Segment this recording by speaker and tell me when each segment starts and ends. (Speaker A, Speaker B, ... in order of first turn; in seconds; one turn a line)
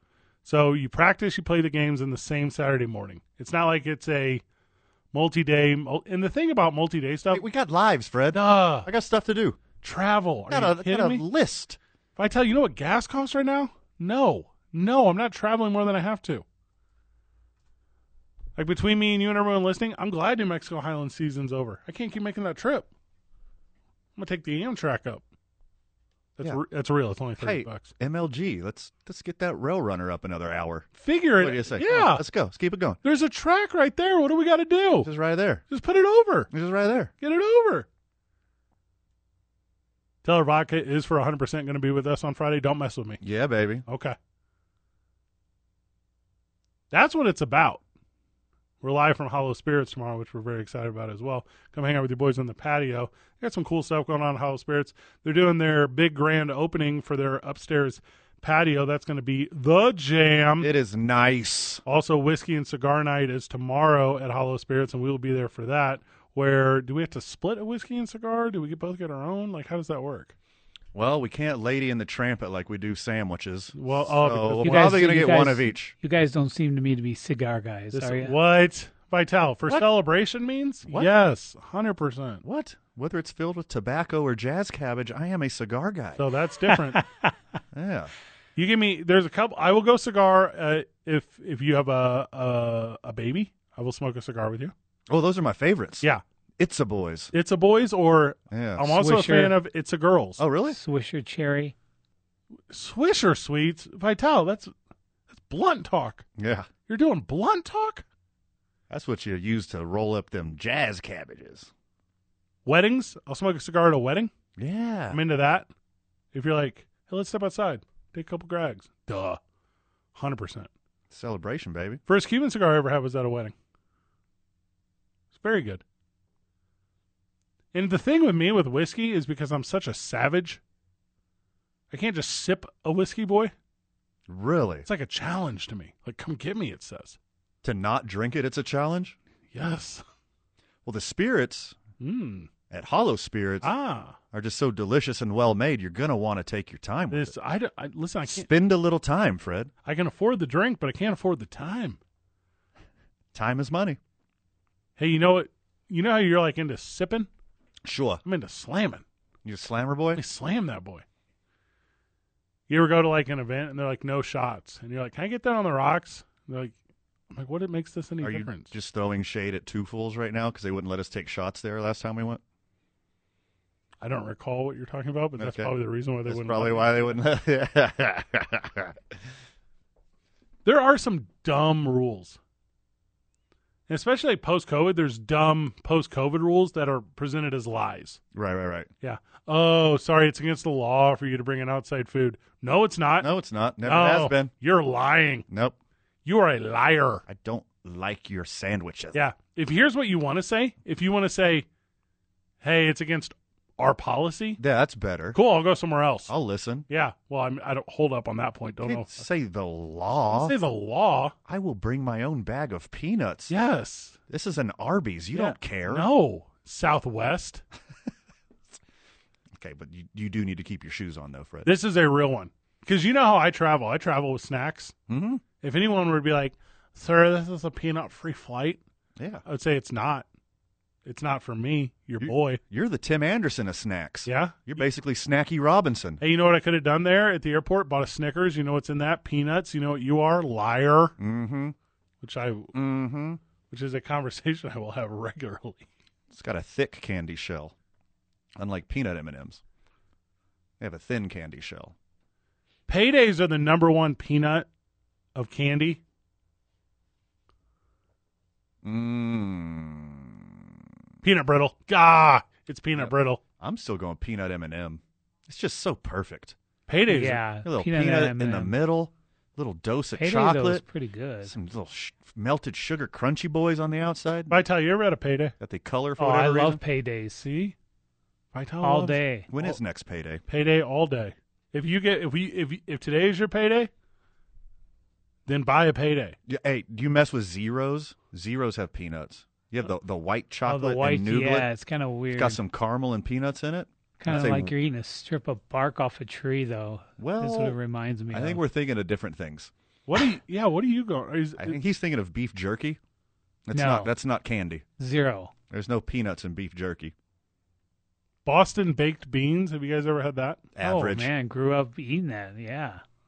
Speaker A: 0.4-4.4
Speaker A: 5.1-7.4
Speaker B: 7.3-9.6
Speaker A: 8.3-8.9
Speaker A: 9.8-11.2
Speaker B: 10.5-11.8
Speaker A: 12.2-16.4
Speaker A: 18.6-22.9
Speaker A: 24.2-25.2
Speaker A: 26.4-27.9
Speaker B: 27.4-30.9
Speaker A: 31.0-32.2
Speaker B: 31.4-33.0
Speaker A: 33.0-35.1
Speaker B: 35.0-35.6
Speaker A: 35.7-36.5
Speaker B: 36.5-37.1
Speaker A: 37.2-37.9
Speaker A: 40.2-43.2
Speaker B: 43.2-43.8
Speaker A: 43.9-44.2
Speaker A: 46.9-47.8
Speaker A: 48.8-60.7
Speaker B: 60.6-61.8
Speaker A: 61.9-70.3
Speaker B: 70.9-75.9
Speaker A: 73.8-75.0
Speaker C: 74.6-78.3
Speaker A: 77.9-82.4
Speaker B: 82.4-86.2
Speaker A: 86.2-87.0
Speaker C: 86.7-87.0
Speaker B: 87.7-88.1
Speaker A: 88.6-94.7
Speaker B: 95.1-96.1
Speaker B: 96.6-97.3
Speaker A: 97.3-100.4
Speaker B: 98.5-98.9
Speaker C: 98.9-99.6
Speaker B: 100.4-100.8
Speaker C: 100.7-101.8
Speaker A: 102.7-104.7
Speaker A: 105.3-106.3
Speaker B: 106.4-106.7
Speaker A: 106.9-108.0
Speaker B: 108.9-111.7
Speaker A: 112.7-114.3
Speaker B: 114.6-115.2
Speaker A: 115.1-115.7
Speaker A: 116.3-119.4
Speaker A: 120.2-120.7
Speaker B: 121.1-122.0
Speaker A: 122.1-123.5
Speaker A: 125.3-125.8
Speaker A: 127.7-130.6
Speaker A: 131.9-133.5
Speaker B: 134.3-134.9
Speaker A: 134.9-137.2
Speaker B: 137.6-139.2
Speaker A: 139.5-140.0
Speaker B: 140.8-141.8
Speaker A: 142.0-142.5
Speaker B: 142.7-143.7
Speaker A: 143.6-144.2
Speaker B: 144.3-147.3
Speaker A: 147.1-148.5
Speaker B: 148.3-149.7
Speaker A: 149.8-152.0
Speaker B: 153.3-154.0
Speaker A: 155.0-157.3
Speaker B: 157.8-158.2
Speaker A: 158.3-159.0
Speaker B: 159.4-160.2
Speaker A: 160.2-161.0
Speaker A: 162.7-166.8
Speaker A: 167.3-168.7
Speaker B: 168.2-172.4
Speaker A: 174.0-177.2
Speaker B: 175.4-175.7
Speaker B: 176.3-179.0
Speaker A: 180.7-182.4
Speaker A: 183.9-188.2
Speaker B: 188.3-188.9
Speaker A: 189.0-193.3
Speaker B: 193.2-194.5
Speaker A: 193.8-195.5
Speaker B: 195.5-195.8
Speaker A: 196.2-197.2
Speaker B: 197.3-199.2
Speaker A: 199.1-201.7
Speaker A: 202.6-204.6
Speaker B: 204.6-205.4
Speaker A: 205.3-206.3
Speaker B: 206.3-206.9
Speaker A: 206.9-209.1
Speaker B: 208.8-210.6
Speaker A: 210.3-211.3
Speaker B: 211.5-213.5
Speaker A: 213.5-214.2
Speaker B: 214.3-216.1
Speaker A: 215.3-217.6
Speaker B: 219.6-221.7
Speaker A: 221.7-224.9
Speaker B: 225.1-225.4
Speaker A: 225.6-228.8
Speaker B: 229.2-229.4
Speaker A: 229.5-230.2
Speaker A: 231.1-232.6
Speaker B: 232.2-236.2
Speaker A: 234.2-234.8
Speaker A: 236.2-241.2
Speaker B: 241.2-241.8
Speaker A: 242.2-242.7
Speaker B: 242.7-243.4
Speaker A: 243.7-245.9
Speaker B: 246.3-247.7
Speaker B: 248.6-249.6
Speaker B: 250.8-251.9
Speaker A: 252.9-254.7
Speaker A: 255.3-256.0
Speaker B: 258.8-260.7
Speaker A: 261.2-263.4
Speaker B: 263.0-266.6
Speaker A: 266.9-267.4
Speaker C: 267.1-268.8
Speaker B: 267.6-270.8
Speaker C: 270.1-271.6
Speaker B: 271.5-274.6
Speaker A: 274.5-275.6
Speaker B: 275.6-276.8
Speaker C: 276.2-277.4
Speaker A: 276.5-276.8
Speaker A: 277.4-277.8
Speaker A: 278.5-279.8
Speaker C: 278.8-279.5
Speaker B: 279.5-280.4
Speaker A: 280.5-283.9
Speaker A: 285.5-286.4
Speaker B: 286.5-291.7
Speaker C: 290.7-292.6
Speaker B: 292.3-294.7
Speaker C: 294.2-298.6
Speaker B: 297.2-297.8
Speaker B: 298.3-299.7
Speaker A: 300.1-301.8
Speaker B: 301.6-303.0
Speaker B: 303.7-304.8
Speaker C: 303.7-304.1
Speaker C: 305.0-305.5
Speaker B: 305.7-307.1
Speaker A: 308.4-310.6
Speaker B: 310.8-311.3
Speaker C: 310.8-313.0